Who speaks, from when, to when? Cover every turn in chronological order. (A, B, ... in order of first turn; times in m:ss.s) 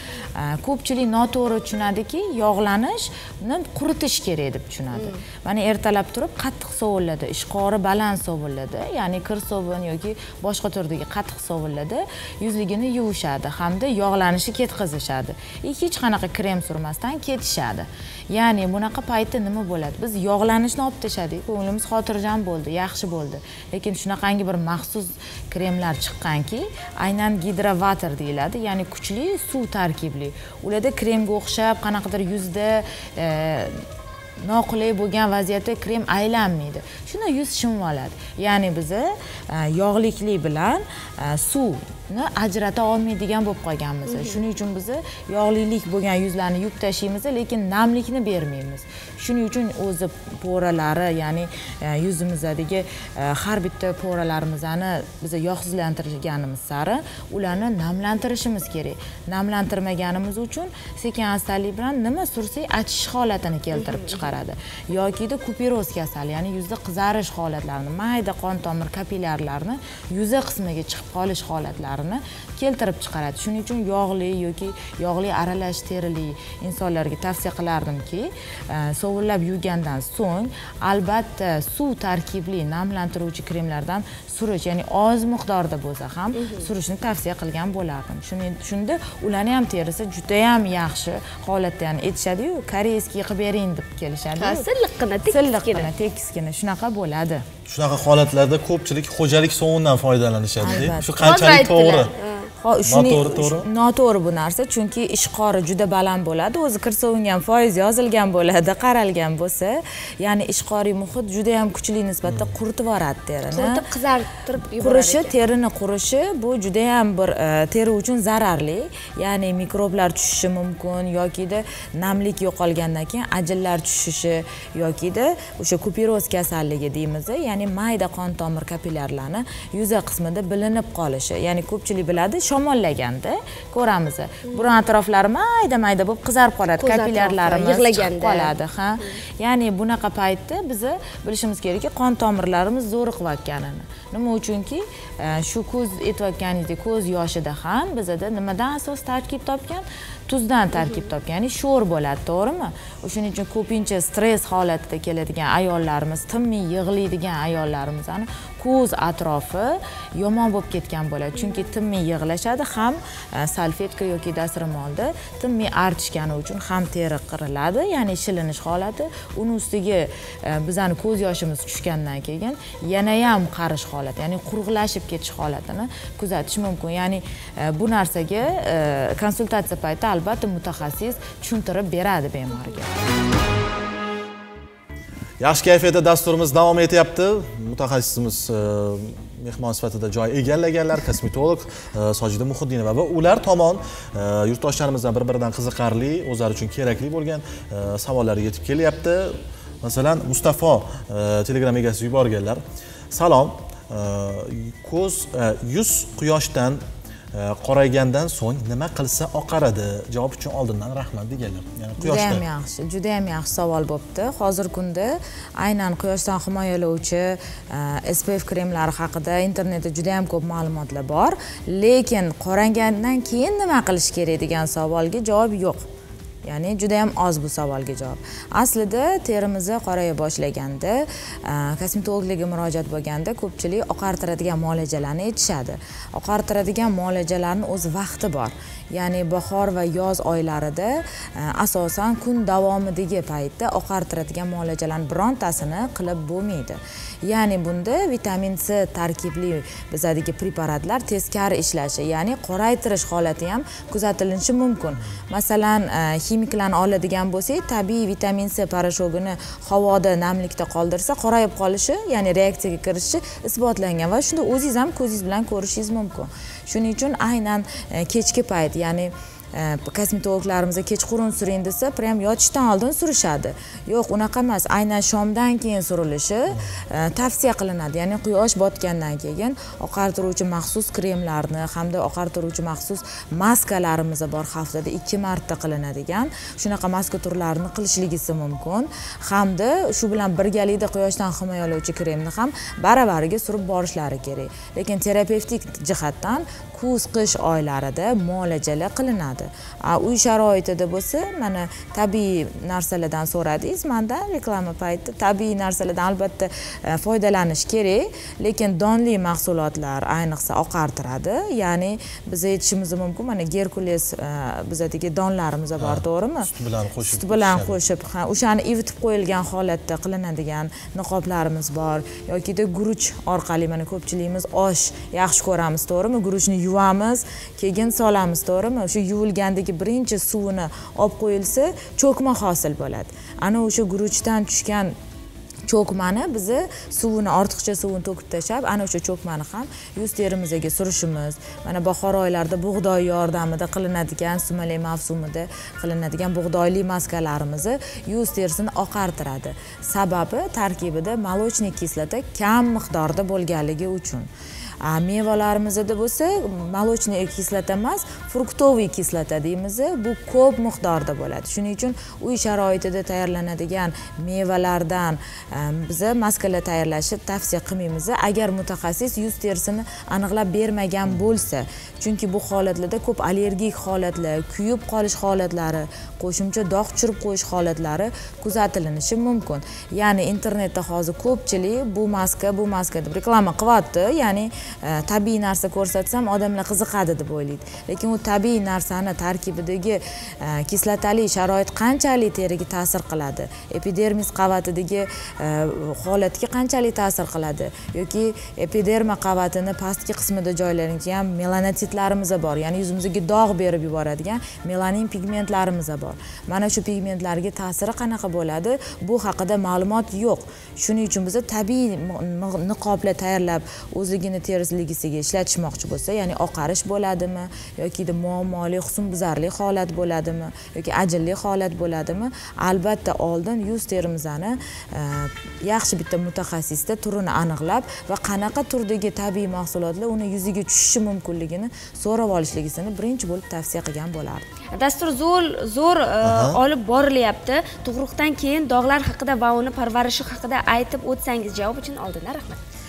0:00.4-0:33.8 A
0:34.4-1:34.7 A
0:44.1-0:44.4 B
1:03.8-1:04.3 B
1:26.4-1:26.7 B
1:34.4-1:35.9 B
1:35.3-1:37.4 A
1:37.7-1:42.1 C
1:40.6-1:41.6 A
1:41.2-1:42.5 B
1:42.6-1:53.8 A
1:42.9-1:43.7 C
1:53.5-1:55.3 B
1:54.8-3:02.9 A
2:16.8-2:18.5 B
3:05.4-3:26.8 C
3:27.3-3:32.4 C
3:32.0-3:45.9 A
3:46.4-5:35.0 A
5:15.8-5:17.8 C
5:35.7-5:54.3 A
5:54.8-7:14.4 A
7:14.7-7:22.6 B
7:16.2-7:16.6 C